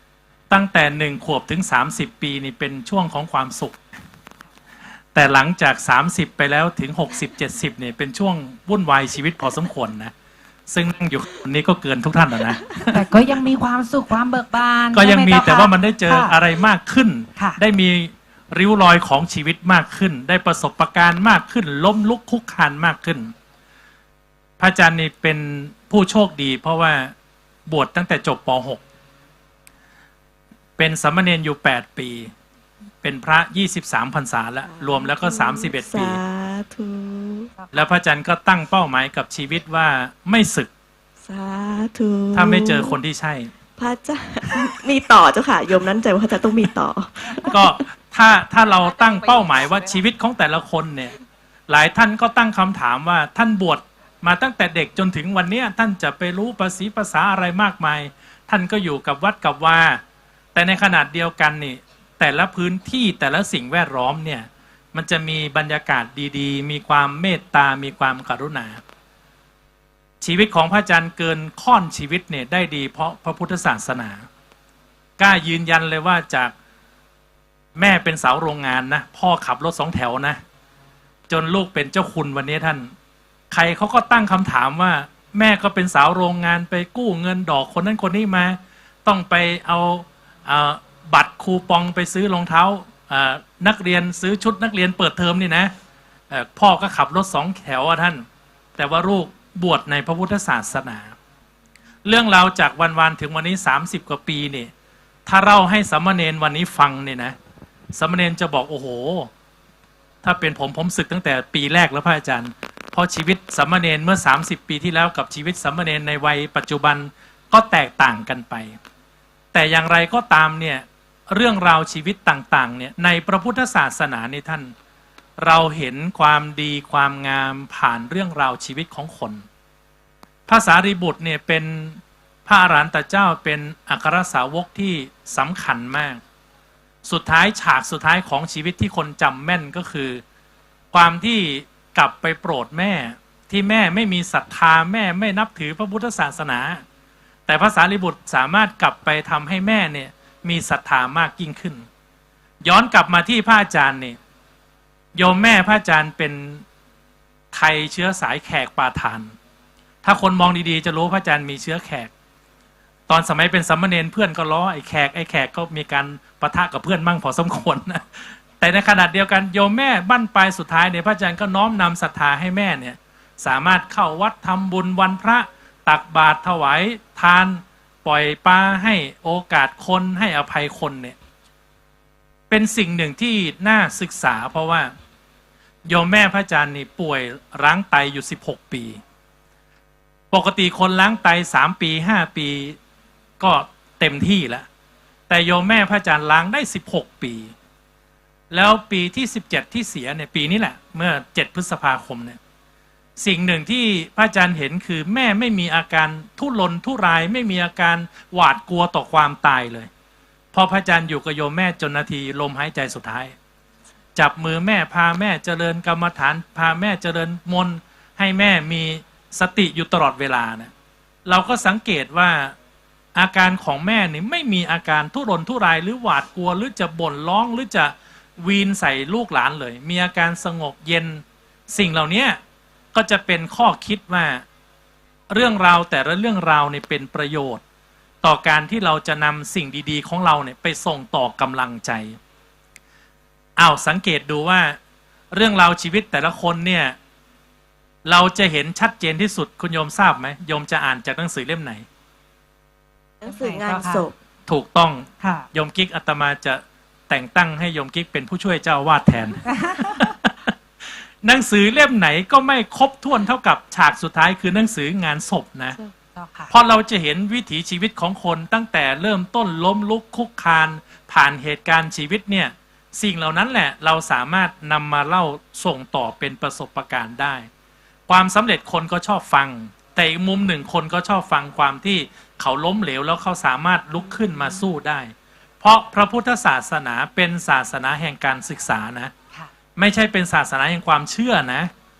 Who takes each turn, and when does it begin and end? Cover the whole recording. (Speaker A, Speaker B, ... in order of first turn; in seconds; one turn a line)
Speaker A: 0.5-3.8
Speaker A: 5.1-10.1
Speaker A: 10.7-13.0
Speaker B: 12.8-16.4
Speaker A: 14.9-23.3
Speaker A: 24.6-27.1
Speaker A: 27.7-28.8
Speaker A: 30.8-32.3
Speaker A: 33.0-36.2
Speaker C: 34.6-37.5
Speaker A: 37.7-40.7
Speaker C: 41.2-43.0
Speaker A: 42.3-43.5
Speaker C: 43.8-47.6
Speaker A: 47.4-51.2
Speaker A: 51.7-60.0
Speaker A: 60.5-68.8
Speaker A: 70.2-74.3
Speaker A: 75.2-76.5
Speaker A: 77.8-80.4
Speaker A: 81.3-82.9
Speaker A: 83.5-95.7
Speaker A: 96.3-98.2
Speaker A: 98.8-101.1
Speaker A: 102.0-104.7
Speaker A: 105.3-107.3
Speaker A: 108.0-109.3
Speaker A: 110.2-118.8
Speaker A: 119.5-124.7
Speaker A: 125.4-129.4
Speaker A: 130.5-136.2
Speaker A: 137.1-140.2
Speaker A: 140.9-146.8
Speaker A: 147.5-151.9
Speaker A: 152.6-154.2
Speaker A: 155.2-156.6
Speaker A: 157.5-159.3
Speaker A: 160.0-162.1
Speaker A: 163.1-181.2
Speaker A: 182.5-184.9
Speaker A: 185.9-189.0
Speaker A: 190.3-192.8
Speaker A: 193.4-194.7
Speaker A: 195.3-197.5
Speaker A: 198.5-202.4
Speaker A: 203.2-209.9
Speaker A: 210.5-213.3
Speaker A: 214.2-220.7
Speaker A: 221.3-222.6
Speaker A: 223.2-232.4
Speaker A: 232.9-234.4
Speaker A: 235.3-237.6
Speaker A: 238.2-242.2
Speaker A: 243.6-244.8
Speaker A: 245.3-247.0
Speaker A: 248.1-251.8
Speaker C: 253.2-254.2
Speaker B: 253.2-254.1
Speaker A: 254.5-260.5
Speaker B: 255.2-255.5
Speaker B: 259.5-260.1
Speaker A: 261.2-265.8
Speaker B: 265.8-266.5
Speaker A: 266.5-277.5
Speaker A: 278.1-289.1
Speaker A: 289.8-291.7